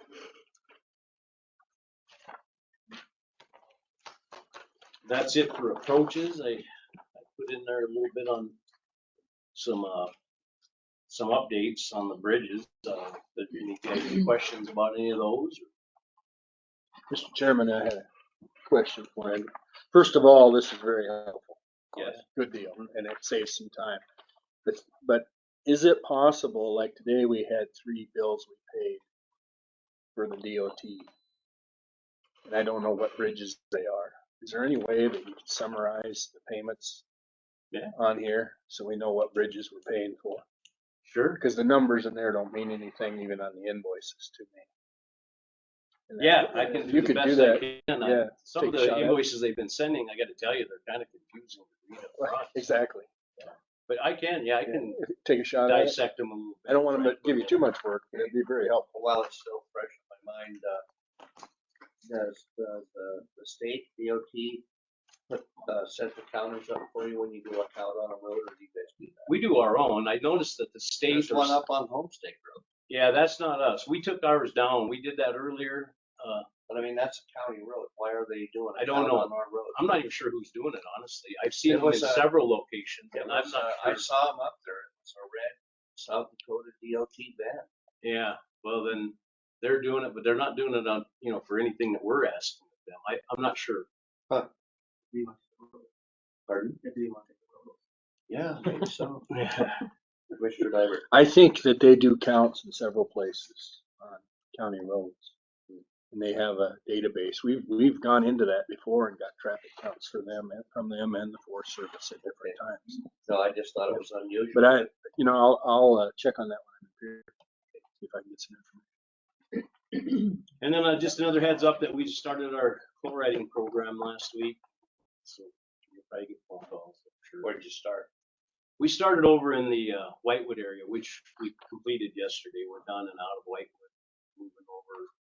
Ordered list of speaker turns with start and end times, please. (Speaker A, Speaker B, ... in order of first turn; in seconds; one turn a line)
Speaker A: 5.0-8.6
Speaker A: 9.6-10.1
Speaker A: 11.1-15.7
Speaker B: 17.1-18.1
Speaker B: 18.7-24.0
Speaker A: 21.9-22.2
Speaker B: 24.6-29.0
Speaker B: 30.2-31.1
Speaker B: 32.5-37.0
Speaker B: 37.9-40.4
Speaker A: 41.0-41.4
Speaker B: 41.4-44.7
Speaker B: 46.1-49.2
Speaker A: 46.2-52.6
Speaker B: 52.2-53.1
Speaker A: 53.4-55.0
Speaker B: 54.7-56.0
Speaker A: 55.7-57.6
Speaker B: 56.7-58.9
Speaker C: 58.9-60.8
Speaker C: 62.0-64.6
Speaker C: 65.3-69.3
Speaker A: 69.3-71.6
Speaker C: 71.1-72.7
Speaker A: 72.9-76.5
Speaker C: 76.7-79.9
Speaker A: 78.8-84.1
Speaker C: 81.7-82.3
Speaker C: 83.1-87.7
Speaker A: 88.0-93.9
Speaker C: 95.1-95.9
Speaker C: 96.5-97.1
Speaker C: 98.3-99.4
Speaker A: 99.3-99.8
Speaker C: 100.3-101.1
Speaker B: 101.1-105.3
Speaker B: 106.1-113.0
Speaker C: 112.3-112.6
Speaker C: 113.2-114.7
Speaker B: 114.5-117.3
Speaker B: 118.0-118.9
Speaker A: 120.6-124.6
Speaker A: 125.2-127.5
Speaker C: 127.4-128.1
Speaker A: 128.8-135.1